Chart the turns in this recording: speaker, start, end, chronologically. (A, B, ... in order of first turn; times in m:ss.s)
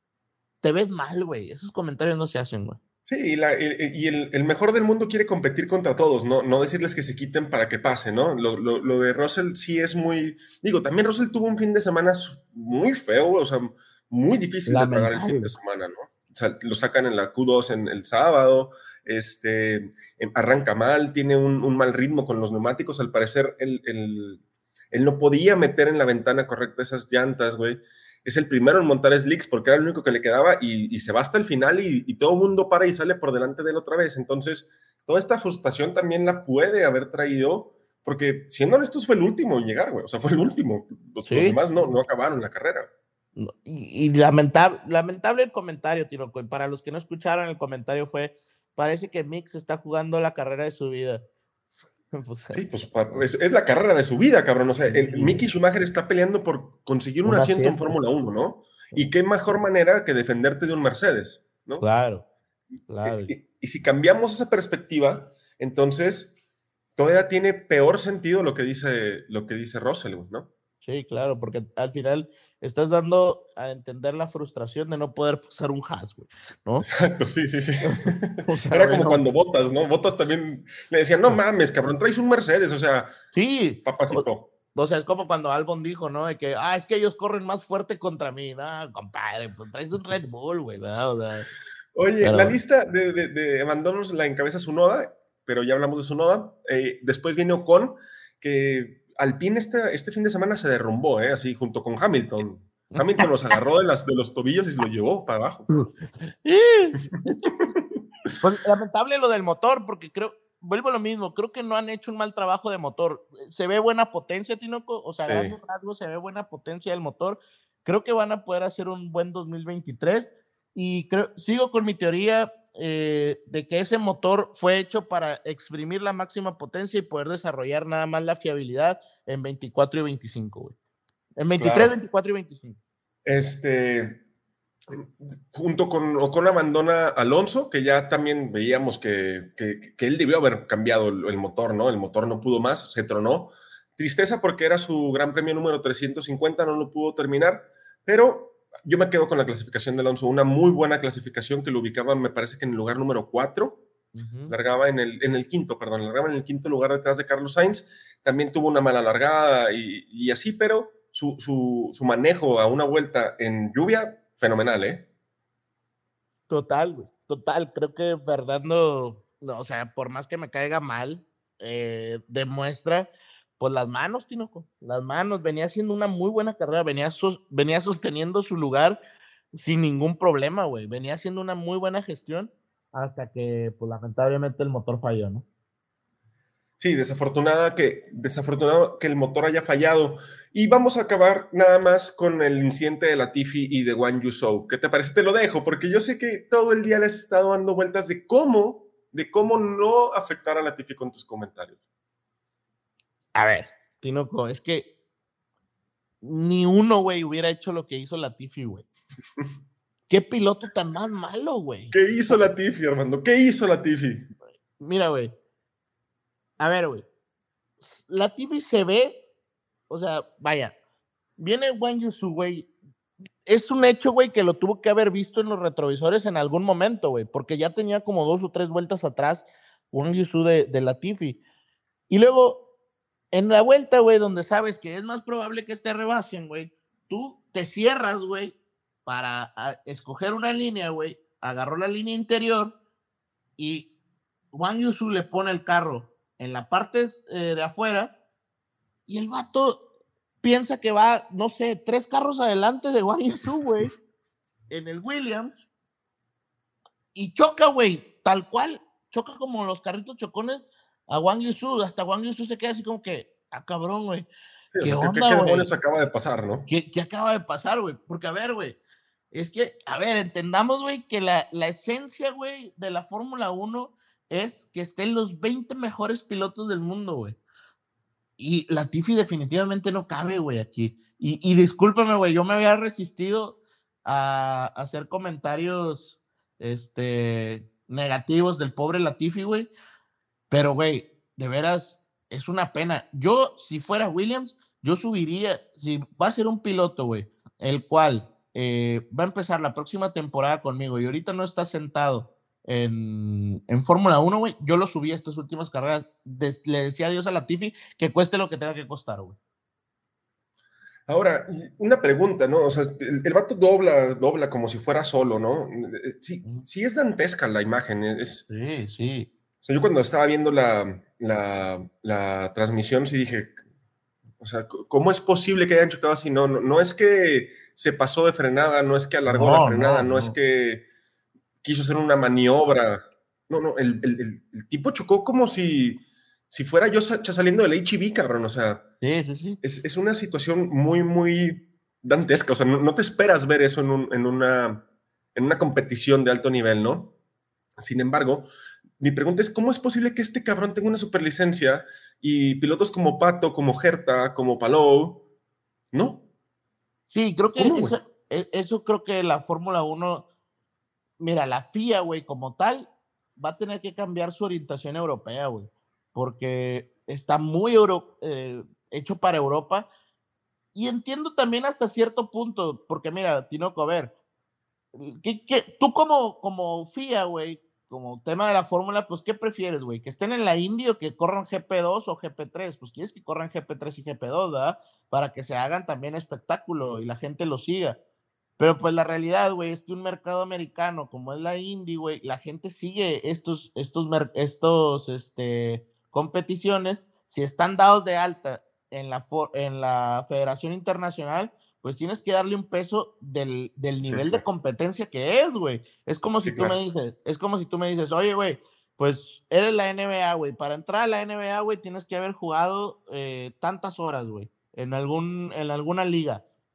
0:00.6-0:02.8 A
0:03.1-0:42.9 B
0:14.7-0:15.5 A
0:41.3-0:41.6 A
0:43.4-0:51.2 A
0:52.1-0:52.6 A
0:52.5-1:01.8 B
0:54.9-0:55.5 A
0:57.2-0:58.0 A
1:01.8-1:02.2 A
1:02.9-1:03.3 A
1:03.0-1:06.4 B
1:07.0-1:10.5 B
1:10.8-1:16.9 A
1:16.8-1:23.1 B
1:17.8-1:19.2 A
1:23.3-1:31.5 A
1:23.8-1:24.5 B
1:32.0-1:45.7 B
1:32.2-1:32.6 A
1:43.0-1:43.2 A
1:45.7-1:47.4 A
1:47.5-1:47.8 B
1:48.4-2:10.8 A
1:55.2-1:55.6 B
2:11.4-2:12.8 A
2:11.6-2:11.9 B
2:13.2-2:14.2 B
2:14.9-2:33.8 B
2:34.1-2:34.5 A
2:34.5-2:45.1 B
2:46.5-2:59.0 A
2:59.5-3:05.4 A
3:06.8-3:21.8 B
3:23.4-3:24.9 A
3:26.2-3:28.9 A
3:30.1-3:32.4 A
3:31.9-3:34.3 B
3:34.8-3:35.4 A
3:36.6-3:37.1 A
3:37.8-3:39.2 A
3:39.9-3:40.7 A
3:41.4-3:42.7 A
3:43.5-3:51.4 A
3:52.1-3:52.6 A
3:53.3-4:02.8 A
4:03.6-4:03.9 A
4:04.5-4:08.1 A
4:09.1-4:09.8 A
4:10.4-4:13.9 A
4:14.7-4:15.6 A
4:17.1-4:24.3 A
4:24.7-4:26.7 B
4:24.8-4:25.7 A
4:26.7-4:28.8 A
4:29.3-4:37.4 A
4:38.4-4:49.7 A
4:50.5-5:09.4 A
5:11.1-5:18.4 B
5:18.5-5:19.3 A
5:19.6-5:23.6 B
5:24.4-5:30.8 B
5:29.3-5:30.3 A
5:31.6-5:38.9 B
5:39.0-5:39.6 A
5:39.6-5:47.1 B
5:47.8-5:48.5 B
5:49.0-5:55.2 B
5:55.9-5:56.2 B
5:57.1-6:00.2 A
5:57.6-5:58.0 B
6:01.2-6:09.9 A
6:10.7-6:14.1 A
6:15.0-6:28.0 A
6:28.6-6:56.4 A
6:44.0-6:44.4 B
6:46.4-6:46.8 B